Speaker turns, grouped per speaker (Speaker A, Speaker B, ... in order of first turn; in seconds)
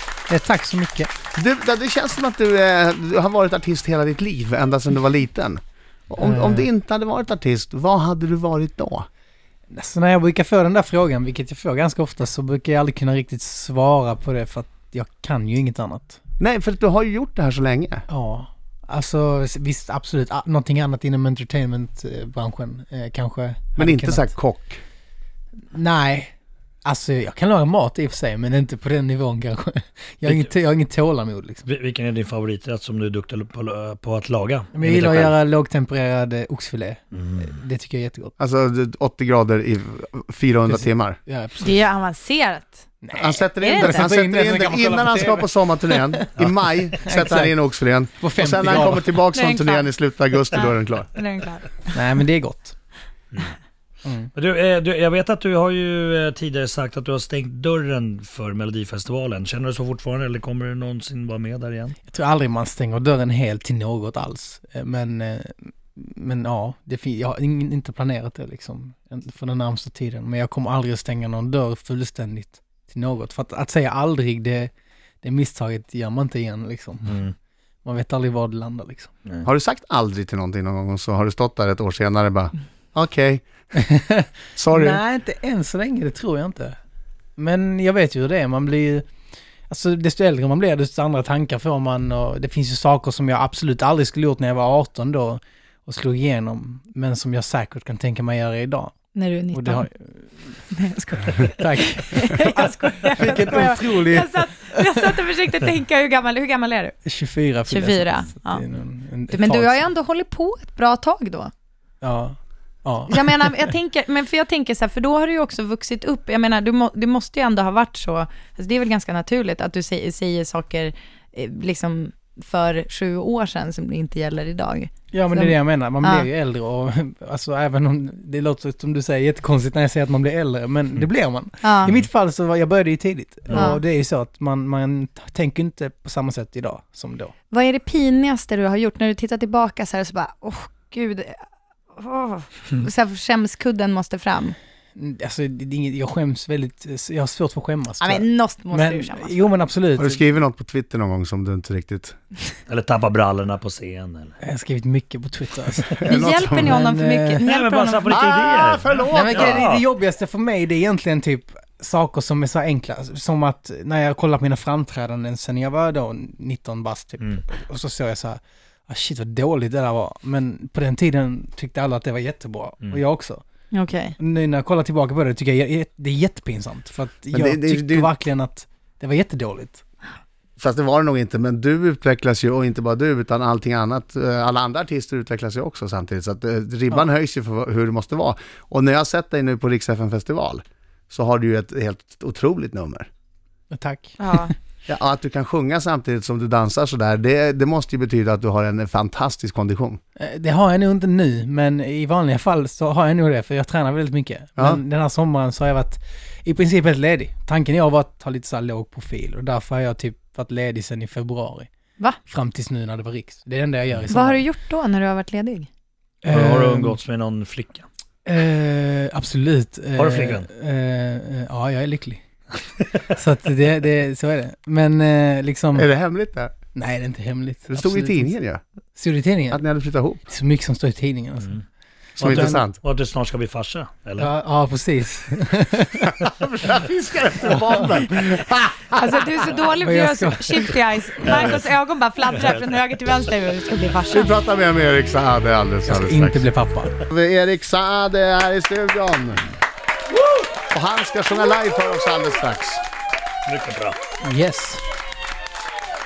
Speaker A: 0.3-1.1, 6.2-6.7, 9.7-16.2, 18.1-24.3, 25.7-26.3, 26.9-31.6, 34.7-38.3, 40.7-41.8, 43.0-46.3, 46.9-47.6, 48.2-49.2, 51.9-52.8, 54.0-54.3, 62.1-74.7, 75.2-77.2, 77.8-79.1, 83.8-86.8, 87.4-89.1, 89.7-99.0, 99.5-100.6, 101.6-105.1, 107.0-109.8, 112.0-113.6, 125.1-137.3, 145.0-150.2, 154.4-157.5, 159.1-173.4, 174.2-179.8, 193.7-194.5, 200.2-211.7, 212.3-214.4, 216.2-217.0, 218.2-222.2, 223.0-225.9, 226.8-228.3, 228.9-229.6, 230.3-231.6, 232.2-232.6, 234.2-236.1, 239.8-240.7, 245.9-247.0, 254.2-254.8
Speaker B: 1.3-9.1, 16.4-18.1, 23.8-24.8, 38.4-41.2, 43.1-51.1, 79.5-83.5, 84.6-85.0, 150.0-152.2, 156.0-156.8, 158.1-159.6, 177.3-178.1, 180.6-193.1, 194.9-200.0, 225.8-226.5, 227.7-228.6, 229.5-230.2, 232.2-232.8, 236.0-239.3, 244.1-246.5, 247.1-249.4, 250.7-252.8
Speaker C: 31.6-35.3, 37.1-37.6, 54.4-62.0, 77.1-77.3, 152.7-154.3, 157.4-159.8, 216.3-217.8, 220.0-220.5, 232.2-234.3, 241.3-241.7, 253.5-254.0
Speaker D: 41.6-42.9, 43.6-44.1, 49.3-49.9, 50.5-51.9, 99.2-99.9, 100.7-107.0, 107.7-108.6, 109.3-111.5, 113.1-126.3, 131.6-131.9, 133.5-133.8, 137.5-141.4, 141.9-144.6, 148.0-149.5, 156.1-158.7, 173.7-174.2, 194.2-194.5, 214.1-215.7, 239.0-244.3